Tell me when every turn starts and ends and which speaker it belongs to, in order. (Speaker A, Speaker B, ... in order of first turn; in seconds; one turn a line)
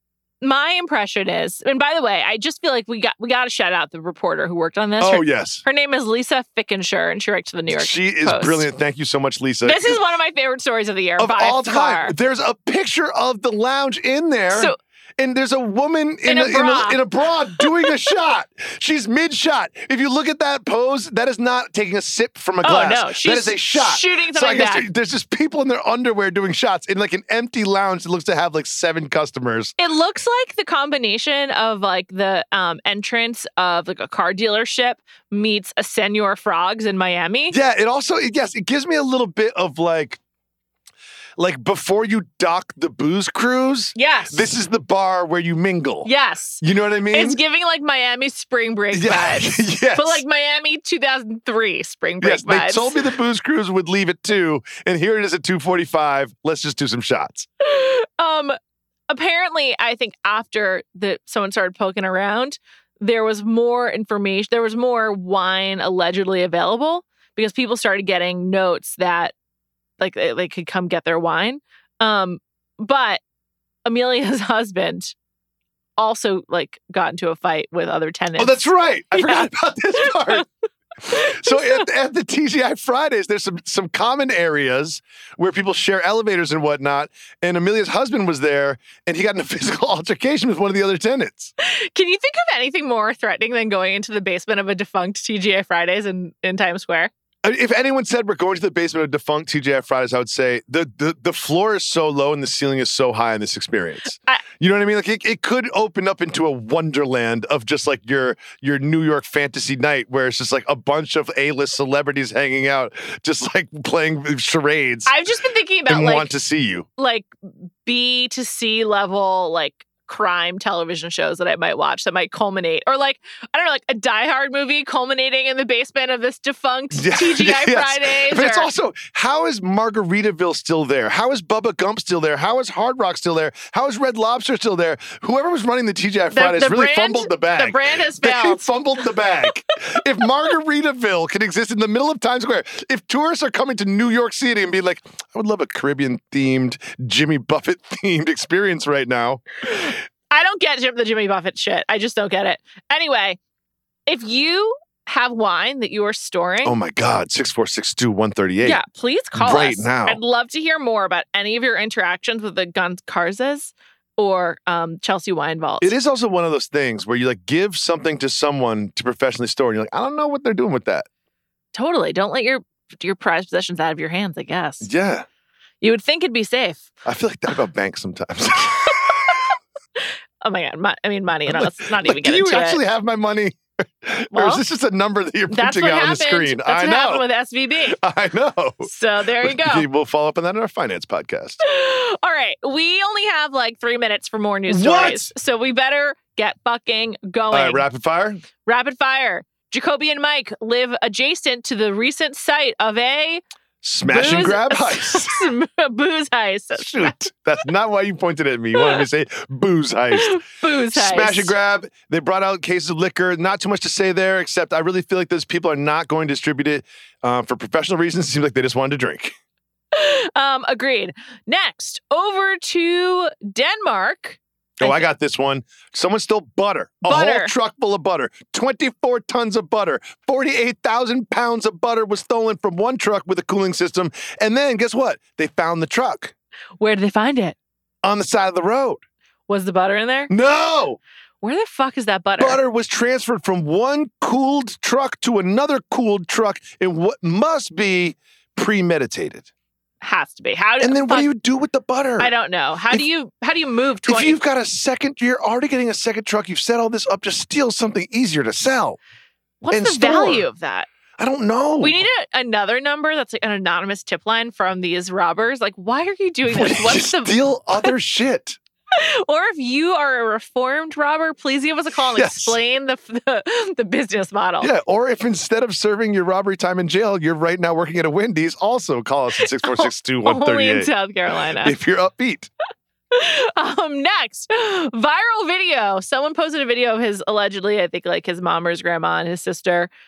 Speaker A: 0.4-8.7
Speaker B: 5.0-5.6
Speaker B: 7.7-10.0
Speaker A: 9.6-12.1
Speaker B: 11.2-29.7
Speaker A: 14.5-14.8
Speaker A: 16.2-17.0
Speaker A: 17.6-17.9
Speaker A: 22.6-24.9
Speaker A: 29.8-37.6
Speaker B: 37.5-40.2
Speaker B: 41.4-46.1
Speaker A: 43.9-44.5
Speaker A: 46.0-53.1
Speaker B: 46.6-47.4
Speaker B: 48.9-50.2
Speaker B: 52.2-57.5
Speaker A: 57.6-58.6
Speaker A: 59.1-69.3
Speaker A: 70.0-73.2
Speaker A: 73.8-75.1
Speaker A: 76.0-79.5
Speaker B: 78.4-80.5
Speaker A: 80.0-80.4
Speaker B: 81.0-91.5
Speaker A: 81.1-81.8
Speaker A: 91.6-97.1
Speaker B: 97.4-115.1
Speaker A: 115.0-116.3
Speaker B: 115.9-116.9
Speaker A: 117.0-117.3
Speaker A: 117.8-128.7
Speaker B: 126.9-149.9
Speaker A: 136.3-138.7
Speaker A: 149.7-153.4
Speaker A: 154.1-156.8
Speaker B: 156.6-158.8
Speaker A: 158.6-165.9
Speaker B: 159.3-160.2
Speaker B: 165.8-171.1
Speaker A: 171.7-174.9
Speaker B: 174.8-175.2
Speaker A: 175.8-176.9
Speaker B: 177.0-179.4
Speaker A: 180.4-182.8
Speaker B: 181.5-187.2
Speaker A: 184.3-184.6
Speaker A: 185.5-188.0
Speaker B: 187.9-191.6
Speaker A: 188.8-189.9
Speaker A: 191.6-197.8
Speaker B: 194.7-195.3
Speaker B: 197.5-198.4
Speaker A: 198.6-203.4
Speaker B: 203.8-205.4
Speaker A: 204.1-207.2
Speaker B: 206.8-210.4
Speaker A: 208.8-209.0
Speaker A: 210.1-211.5
Speaker B: 210.9-219.3
Speaker A: 219.9-225.0
Speaker B: 224.8-236.3
Speaker A: 227.0-227.5
Speaker A: 236.8-237.6
Speaker B: 238.0-239.0
Speaker A: 239.5-240.3
Speaker B: 240.3-241.0
Speaker A: 241.4-242.6
Speaker B: 242.4-249.5
Speaker A: 250.0-251.3
Speaker B: 250.8-252.3
Speaker A: 252.2-254.4
Speaker B: 254.1-259.0
Speaker A: 259.6-260.9
Speaker B: 259.7-260.5
Speaker B: 261.2-262.0
Speaker A: 261.8-267.9
Speaker B: 266.5-268.6
Speaker A: 268.9-274.7
Speaker B: 272.1-272.6
Speaker B: 274.6-280.9
Speaker A: 279.4-281.8
Speaker B: 281.6-282.5
Speaker A: 283.1-289.9